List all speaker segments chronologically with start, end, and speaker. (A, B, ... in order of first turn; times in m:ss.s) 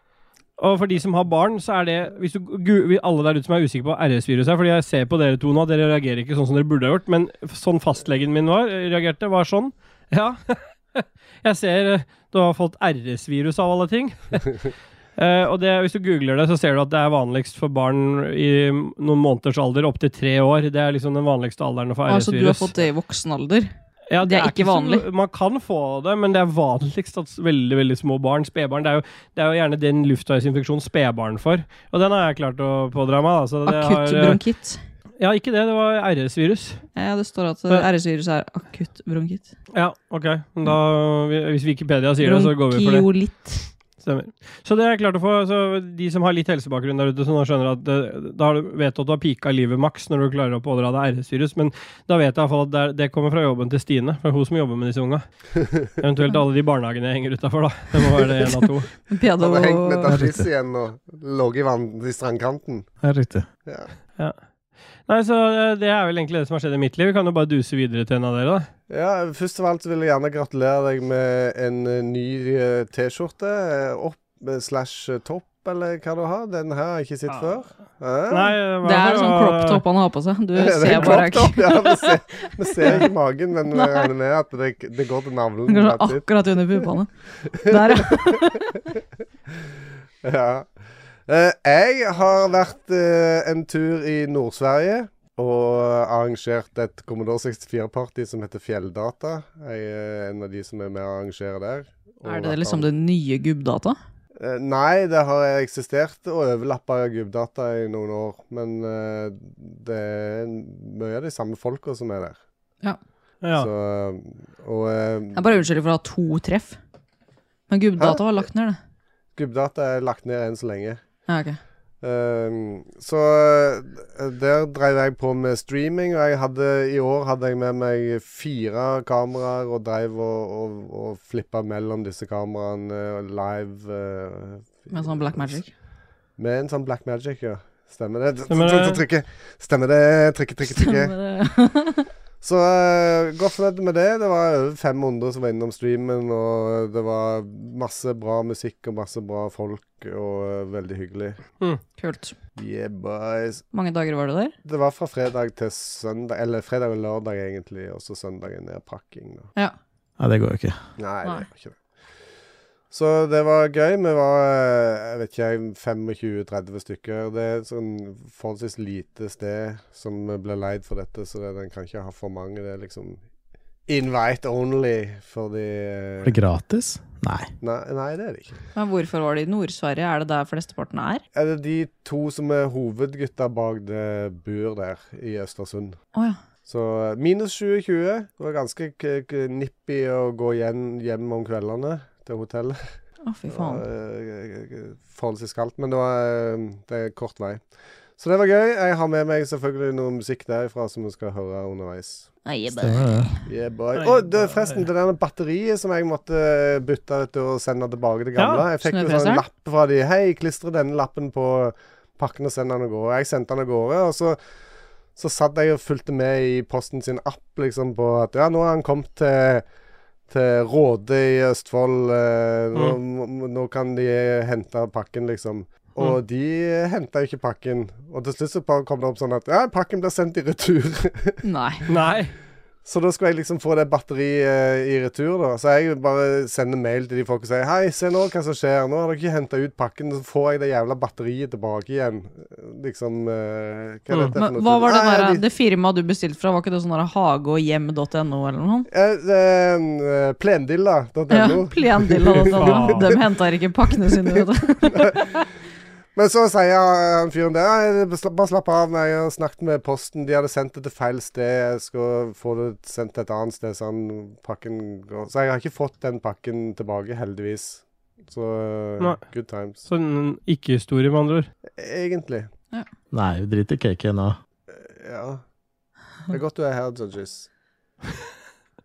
0:00.6-0:14.6 A
0:15.2-0:22.7 A
0:22.1-0:25.0 B
0:24.1-0:34.4 A
0:33.7-0:34.8 B
0:35.2-0:36.8 A
0:37.0-0:39.5 B
0:39.7-0:43.1 A
0:42.2-0:43.7 B
0:44.0-0:55.2 A
0:56.0-0:58.9 A
0:59.1-1:00.2 B
0:59.4-1:02.9 C
1:00.1-1:00.5 D
1:03.0-1:03.5 D
1:05.1-1:08.7 A
1:08.9-1:18.6 C
1:18.3-1:19.8 A
1:18.8-1:22.1 B
1:20.6-1:26.2 C
1:20.9-1:21.2 A
1:22.8-1:23.0 B
1:23.7-1:24.1 B
1:25.7-1:27.1 B
1:27.5-1:28.2 C
1:27.6-1:28.7 B
1:30.2-1:30.7 C
1:31.3-1:42.9 C
1:42.3-1:44.0 B
1:44.4-1:52.4 C
1:53.4-1:53.7 A
1:53.6-1:55.5 C
1:55.4-1:56.8 B
1:57.7-1:58.8 B
1:59.4-2:01.0 C
2:01.3-2:01.6 B
2:02.0-2:15.6 C
2:14.9-2:15.7 B
2:16.4-2:21.1 C
2:18.5-2:19.0 A
2:20.8-2:22.1 B
2:22.4-2:31.4 C
2:32.0-2:32.4 B
2:32.6-2:33.6 C
2:33.7-2:34.5 B
2:34.6-2:39.5 C
2:40.2-2:40.8 D
2:41.0-2:41.8 C
2:42.9-2:53.2 C
2:53.9-2:56.4 C
2:56.2-2:57.5 D
2:57.6-2:58.6 C
2:58.8-3:01.2 B
3:01.3-3:06.0 C
3:06.7-3:12.8 C
3:13.2-3:13.8 B
3:13.5-3:17.6 C
3:18.2-3:22.3 C
3:22.5-3:23.4 B
3:22.7-3:23.3 D
3:23.5-3:34.4 C
3:24.0-3:24.8 A
3:28.4-3:28.6 A
3:28.8-3:29.4 B
3:35.2-3:39.6 C
3:40.3-3:51.4 C
3:51.4-3:51.8 B
3:51.9-3:52.3 A
3:52.8-4:05.4 C
4:04.4-4:08.9 B
4:08.9-4:13.0 C
4:11.3-4:15.2 B
4:12.6-4:13.1 A
4:14.3-4:15.3 C
4:16.2-4:29.8 C
4:29.9-4:31.5 A
4:31.8-4:32.5 C
4:33.1-4:34.4 D
4:34.7-4:35.4 C
4:36.3-4:37.5 C